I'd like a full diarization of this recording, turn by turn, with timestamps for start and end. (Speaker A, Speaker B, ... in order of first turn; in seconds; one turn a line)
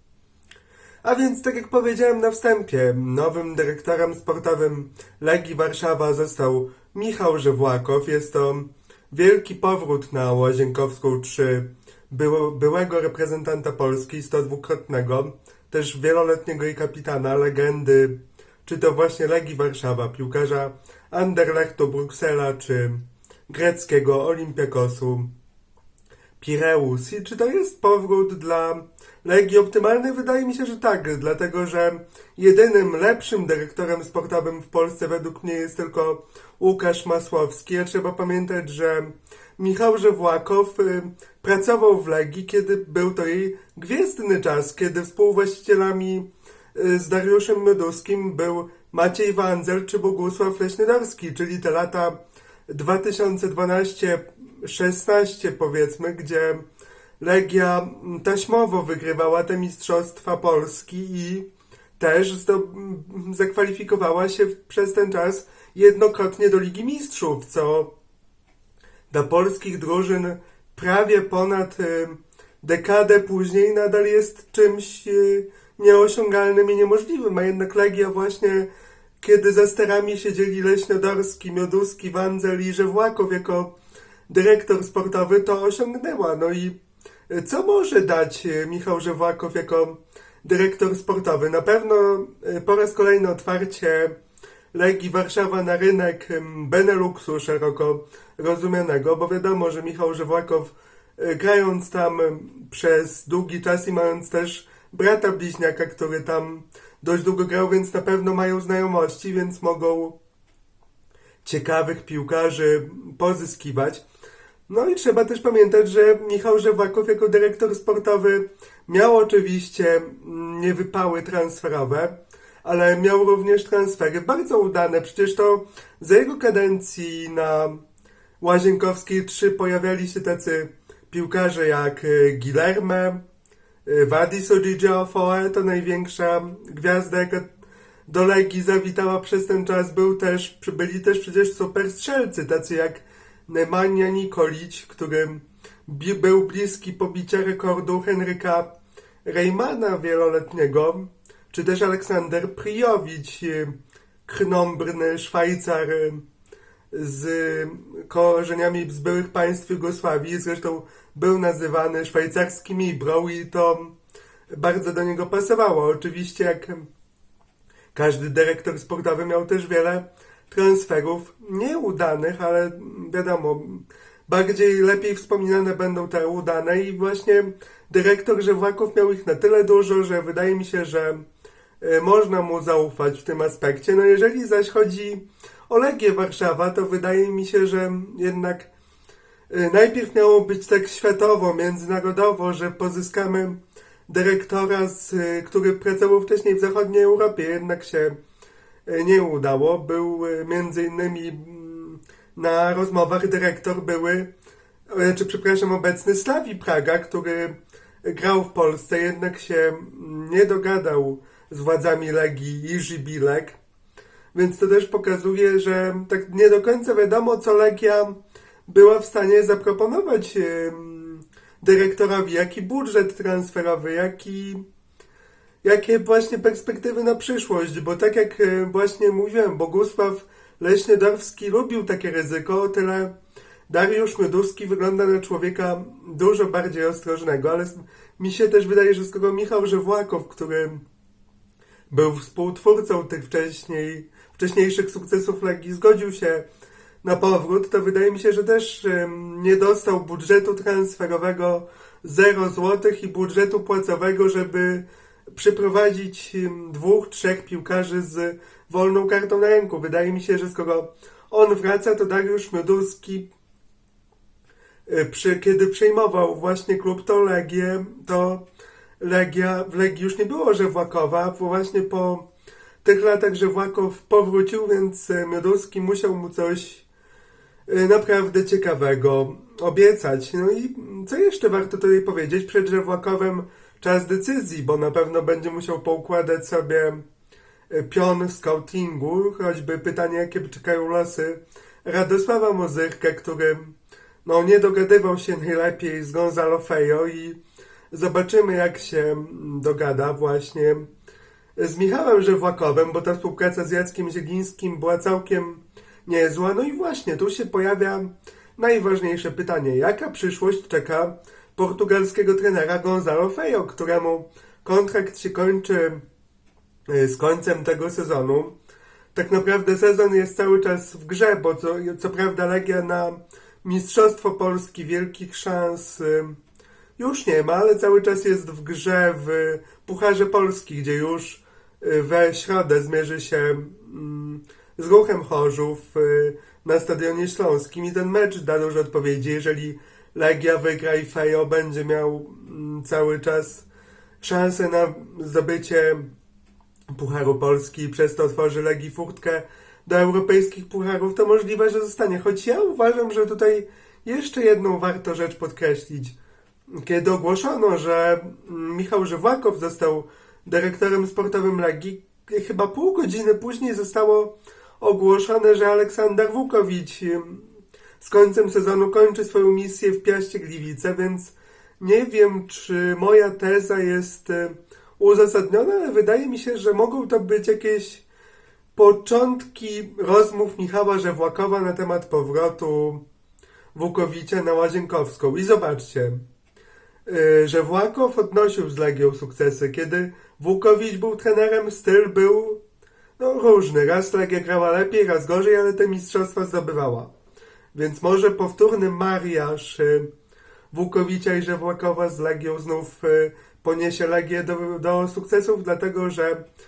Speaker A: 1.0-25.3
Speaker A: 26.4-56.6
Speaker A: 57.2-61.5
Speaker A: 62.0-67.9
Speaker A: 69.1-78.7
Speaker A: 79.2-83.7
Speaker A: 84.3-86.8
Speaker A: 87.3-94.2
Speaker A: 94.7-110.2
Speaker A: 111.4-114.0
Speaker A: 114.7-127.8
Speaker A: 128.4-133.2
Speaker A: 133.8-137.5
Speaker A: 138.1-148.7
Speaker A: 149.2-153.7
Speaker A: 154.2-156.2
Speaker A: 156.9-163.9
Speaker A: 164.5-166.8
Speaker A: 167.9-181.2
Speaker A: 181.8-188.7
Speaker A: 189.5-193.6
Speaker A: 194.1-198.2
Speaker A: 198.8-204.3
Speaker A: 204.9-213.6
Speaker A: 214.3-224.6
Speaker A: 225.6-233.1
Speaker A: 233.7-240.8
Speaker A: 241.9-246.4
Speaker A: 247.0-263.3
Speaker A: 264.9-268.4
Speaker A: 269.0-272.2
Speaker A: 272.8-276.9
Speaker A: 277.7-287.0
Speaker A: 287.7-297.4
Speaker A: 297.9-300.9
Speaker A: 301.6-316.0
Speaker A: 316.9-318.5
Speaker A: 319.1-326.4
Speaker A: 327.0-343.6
Speaker A: 344.2-346.1
Speaker A: 346.9-356.1
Speaker A: 356.7-378.0
Speaker A: 378.7-383.0
Speaker A: 383.7-386.2
Speaker A: 387.1-392.6
Speaker A: 393.2-397.1
Speaker A: 397.7-400.1
Speaker A: 400.7-406.4